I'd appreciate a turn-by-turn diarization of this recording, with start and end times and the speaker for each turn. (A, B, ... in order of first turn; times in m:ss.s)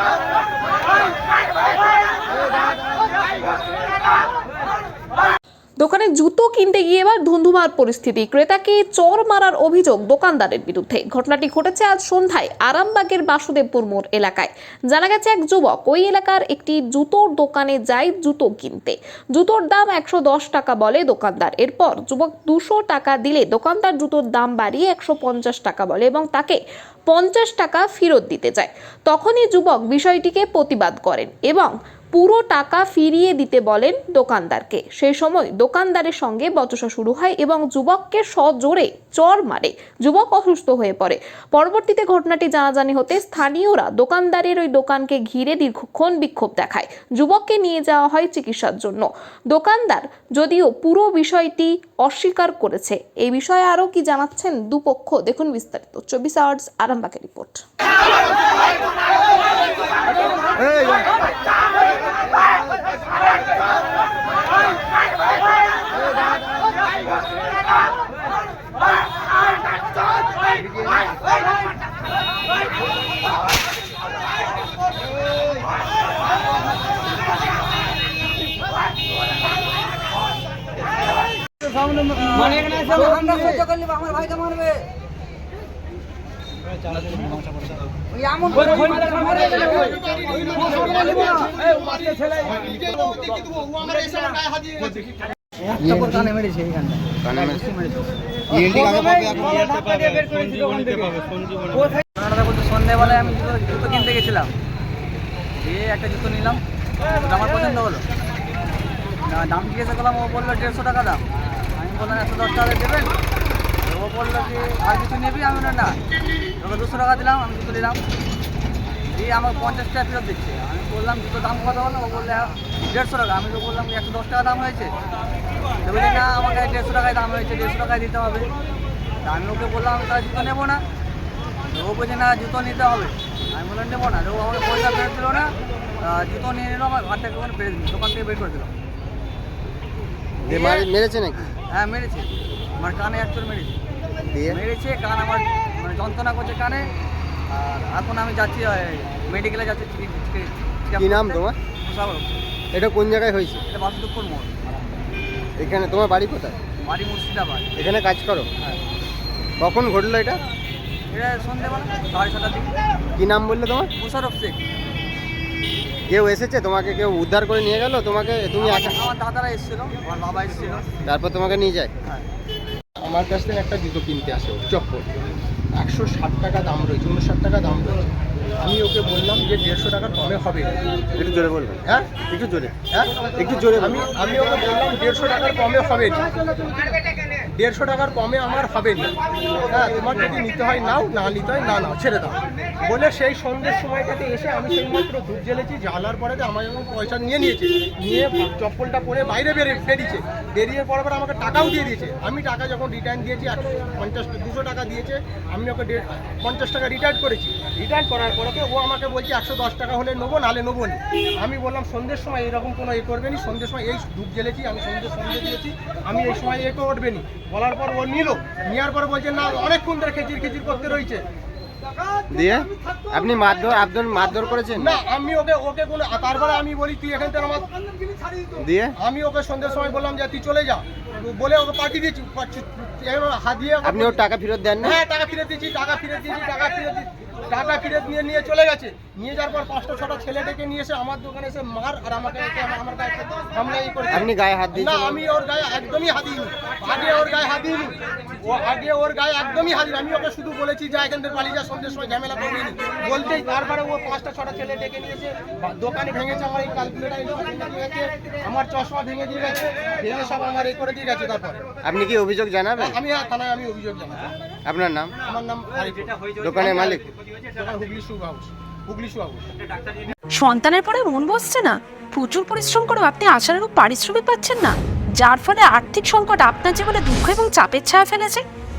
0:05.8-0:57.6 A
1:21.6-1:24.9 B
1:26.9-1:29.9 B
1:28.9-1:35.2 C
1:30.6-1:31.4 B
1:35.7-1:44.5 B
1:37.2-1:37.7 D
1:38.6-1:39.5 D
1:45.6-1:46.6 B
1:47.1-1:48.0 B
1:49.3-1:53.1 B
1:53.8-1:56.0 B
1:56.6-1:58.0 B
1:59.1-2:04.9 B
2:05.8-2:08.5 B
2:09.2-2:10.8 B
2:11.7-2:15.5 B
2:16.0-2:18.7 B
2:20.4-2:21.6 D
2:20.5-2:20.9 B
2:21.7-2:23.8 B
2:24.3-2:24.6 D
2:24.5-2:26.9 B
2:27.5-2:32.4 B
2:31.0-2:31.6 D
2:32.7-2:33.6 D
2:33.7-2:34.6 B
2:35.6-2:36.6 D
2:36.8-2:37.8 B
2:37.8-2:38.5 D
2:39.6-2:40.4 D
2:41.1-2:42.7 B
2:43.2-2:43.9 D
2:44.0-2:44.6 B
2:46.1-2:49.0 D
2:48.6-2:50.9 B
2:51.1-2:51.9 D
2:53.0-2:55.1 C
2:55.8-3:00.8 C
3:01.2-3:04.0 D
3:03.8-3:06.2 C
3:07.6-3:09.1 C
3:09.7-3:41.2 C
3:42.3-3:45.0 D
3:44.8-3:47.7 C
3:48.6-3:48.9 D
3:49.0-3:54.2 C
3:53.8-3:55.0 D
3:54.8-4:21.7 C
4:04.1-4:05.2 D
4:21.8-4:23.0 D
4:22.8-4:24.3 C
4:24.7-4:25.2 D
4:25.2-4:29.5 C
4:26.4-4:27.1 D
4:30.4-4:38.4 E